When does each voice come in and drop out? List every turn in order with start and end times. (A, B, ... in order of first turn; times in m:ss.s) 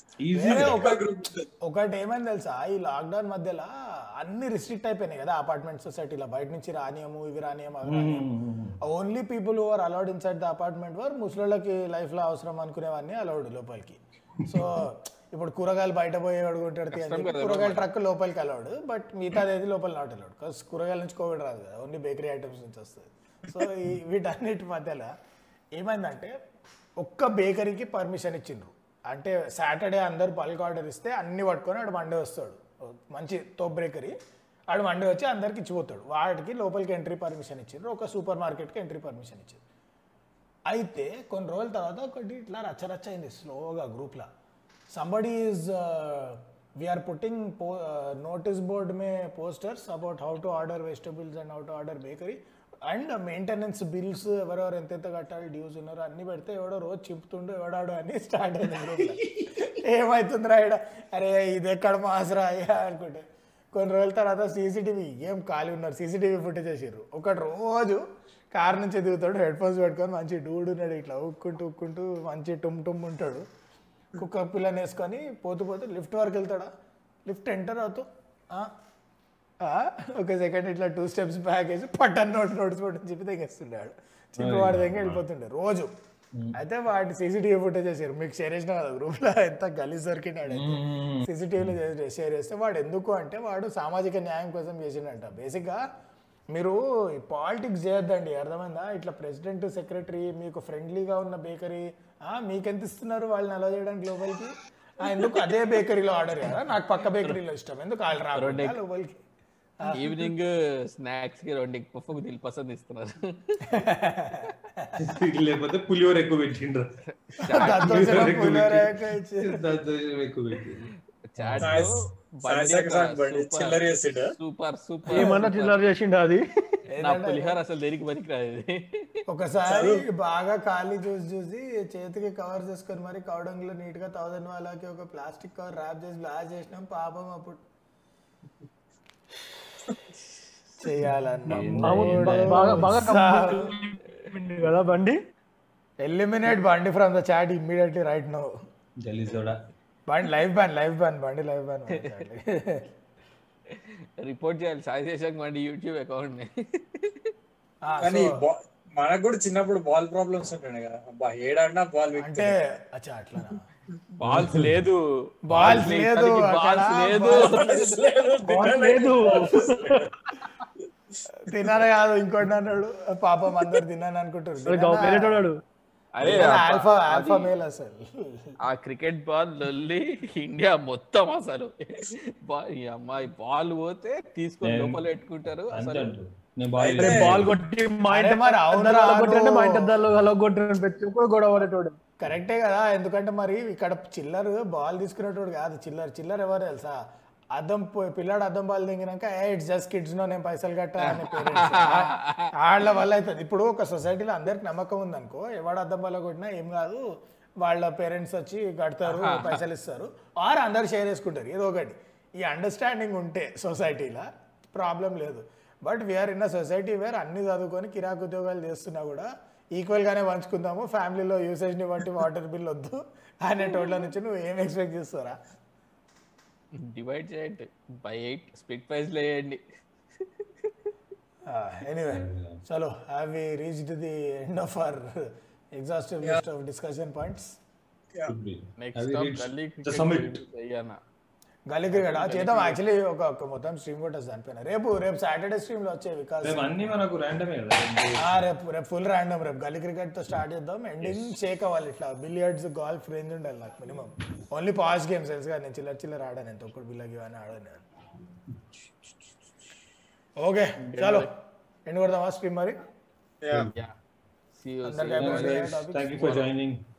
0:00.2-0:00.9 A
0:00.3-0:01.1 B
0:00.6-0:01.4 C
0:01.6-0:08.2 B
0:07.8-0:08.8 A
0:08.8-0:25.1 B
0:16.9-0:17.9 D
0:25.7-0:26.3 B
0:27.0-0:34.1 B
0:34.7-0:39.6 B
0:40.7-0:44.3 B
0:44.9-1:13.4 B
1:14.1-1:16.7 B
1:17.2-1:18.7 B
1:19.6-1:25.9 B
1:24.4-1:25.2 A
1:26.5-1:35.8 B
1:30.5-1:31.7 A
1:36.5-1:49.2 B
1:48.3-1:48.8 D
1:49.8-1:50.1 B
1:49.9-1:53.8 D
1:53.6-1:55.0 B
1:55.0-1:57.0 A
1:57.0-1:58.4 D
1:57.5-2:02.0 A
1:57.5-1:59.7 B
2:01.3-2:03.8 D
2:01.6-2:04.3 C
2:04.4-2:05.8 D
2:05.1-2:06.4 E
2:06.9-2:07.6 B
2:07.0-2:09.2 D
2:09.3-2:17.6 B
2:09.7-2:10.0 C
2:20.8-2:23.7 B
2:21.4-2:23.1 A
2:21.5-2:25.2 E
2:26.0-2:28.5 B
2:29.0-2:29.6 A
2:30.1-2:32.9 B
2:33.7-2:37.3 D
2:37.8-2:38.4 B
2:38.0-2:42.5 C
2:42.2-2:43.6 B
2:44.1-2:47.8 D
2:44.2-2:44.8 A
2:45.5-2:48.1 B
2:45.5-2:45.9 A
2:47.3-2:50.1 C
2:48.4-2:50.1 E
2:51.4-2:55.4 B
2:54.7-2:55.6 E
2:56.2-2:57.5 D
2:56.2-2:58.6 B
2:58.6-3:06.1 D
3:04.6-3:05.0 A
3:05.7-3:07.6 A
3:06.8-3:07.5 C
3:07.0-3:12.0 E
3:08.1-3:10.0 B
3:12.2-3:17.0 B
3:17.5-3:27.0 B
3:21.0-3:22.5 D
3:27.6-3:45.4 B
3:29.1-3:29.6 D
3:46.7-3:49.6 D
3:51.4-3:57.6 B
3:52.1-3:52.6 A
3:58.3-4:00.4 A
3:58.8-4:01.0 D
4:01.7-4:06.8 B
4:01.9-4:02.8 D
4:06.4-4:08.4 A
4:08.2-4:17.8 B
4:11.0-4:11.3 A
4:20.4-4:21.3 B
4:20.8-4:21.3 D
4:21.8-4:22.8 B
4:23.4-4:23.7 C
4:23.6-4:24.0 D
4:24.6-4:25.6 D
4:24.8-4:26.5 B
4:25.2-4:26.8 A